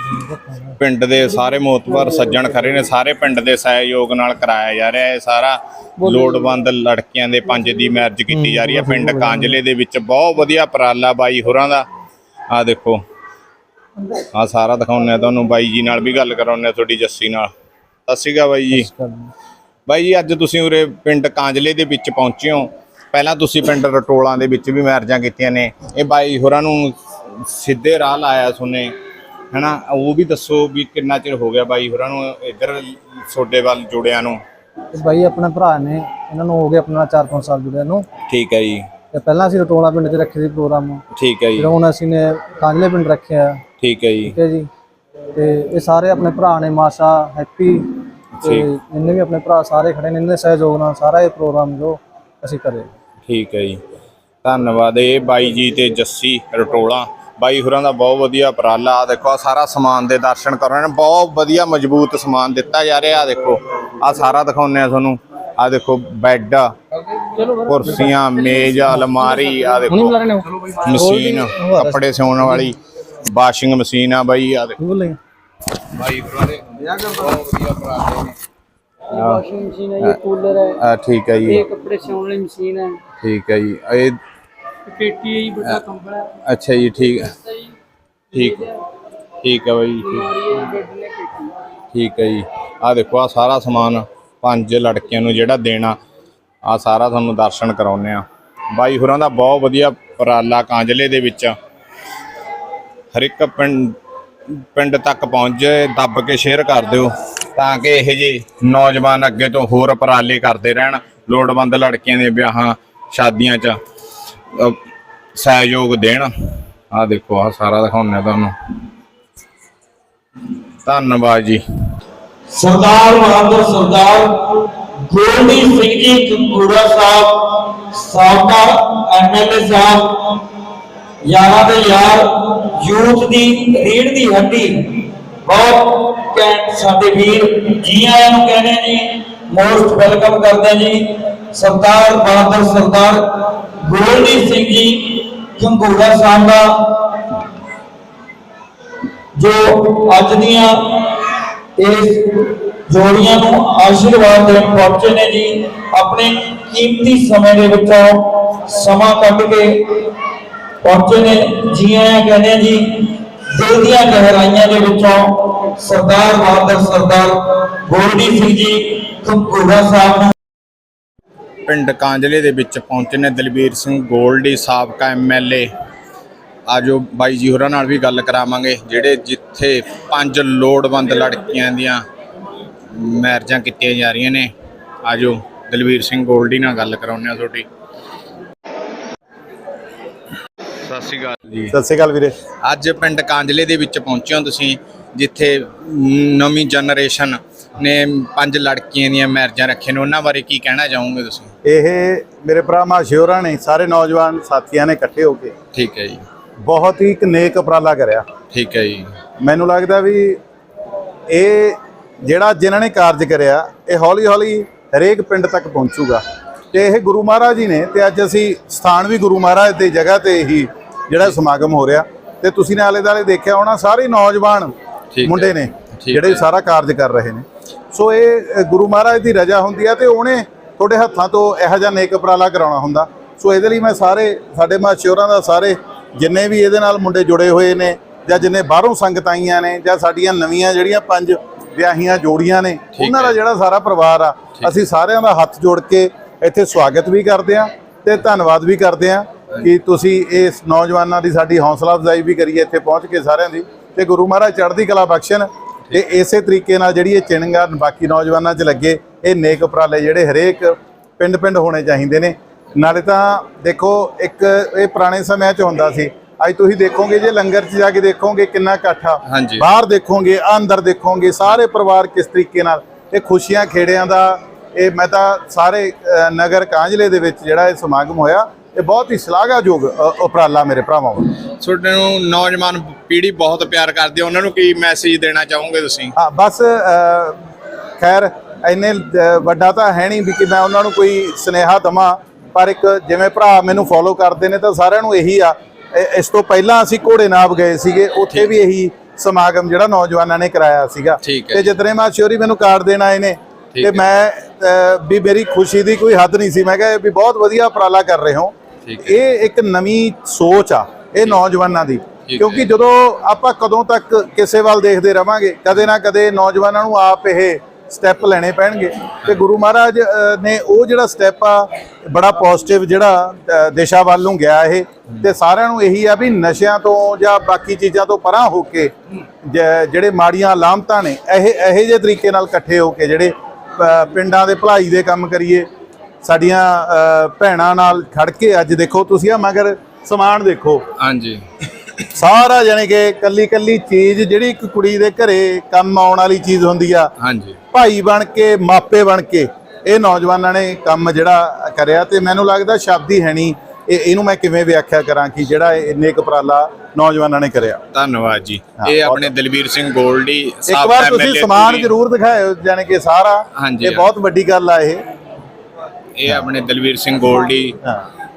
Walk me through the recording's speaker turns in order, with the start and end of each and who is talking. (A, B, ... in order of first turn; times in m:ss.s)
0:00.2-0:00.7 A
0:00.8-0:11.8 B
0:06.0-0:06.4 C
0:08.9-0:09.5 A
0:12.5-0:13.0 B
0:14.3-0:17.5 B
0:18.1-0:18.9 B
0:18.7-0:19.3 A
0:19.9-0:28.9 B
0:29.5-0:34.4 B
0:34.9-0:38.1 A
0:38.3-0:38.8 B
0:39.1-0:41.0 A
0:41.2-0:41.7 B
0:41.6-0:43.6 A
0:43.8-0:44.4 B
0:44.2-0:44.7 A
0:45.3-0:52.9 A
0:48.4-0:48.7 B
0:53.3-0:53.8 B
0:54.4-1:10.2 B
1:07.6-1:08.0 C
1:10.8-1:12.8 B
1:11.0-1:12.7 A
1:13.3-1:14.8 B
1:14.8-1:15.2 A
1:15.9-1:18.3 B
1:19.1-1:20.8 C
1:19.1-1:19.4 B
1:20.8-1:21.6 B
1:21.4-1:23.0 C
1:23.2-1:24.2 B
1:24.8-1:26.3 C
1:26.5-1:27.3 B
1:28.3-1:28.6 B
1:28.3-1:28.8 C
1:29.4-1:30.3 B
1:30.0-1:31.5 C
1:31.9-1:36.0 B
1:36.7-1:41.5 B
1:43.1-1:43.9 B
1:44.7-1:53.7 B
1:55.4-1:56.3 B
1:56.9-1:58.5 B
2:00.8-2:01.6 B
2:02.5-2:10.4 D
2:11.2-2:27.3 D
2:29.4-2:31.2 D
2:31.8-2:40.1 D
2:40.8-2:50.3 D
2:51.6-2:55.7 B
2:56.7-3:02.0 B
3:02.9-3:04.5 B
3:05.0-3:07.6 B
3:10.8-3:11.7 B
3:11.7-3:12.4 E
3:12.6-3:21.5 B
3:21.6-3:25.5 E
3:25.7-3:26.2 B
3:26.6-3:28.2 E
3:28.5-3:29.1 B
3:29.4-3:30.4 E
3:31.3-3:36.2 E
3:36.7-3:44.7 E
3:45.1-3:46.4 B
3:45.2-4:41.3 E
4:02.9-4:03.4 B
4:29.3-4:29.6 B
4:41.6-4:46.1 B
4:46.1-4:47.4 E
4:48.0-5:28.9 E
5:01.2-5:01.7 B
5:03.7-5:04.2 B
5:08.8-5:09.2 B
5:12.3-5:12.7 B
5:29.4-5:35.6 E
5:36.2-5:40.8 E
5:41.0-5:41.4 B
5:42.1-5:47.1 E
5:47.2-5:47.6 B
5:47.7-5:57.8 E
5:57.9-6:01.9 B
5:58.8-5:59.3 E
6:00.7-6:05.0 E
6:03.6-6:04.1 B
6:06.2-6:07.8 B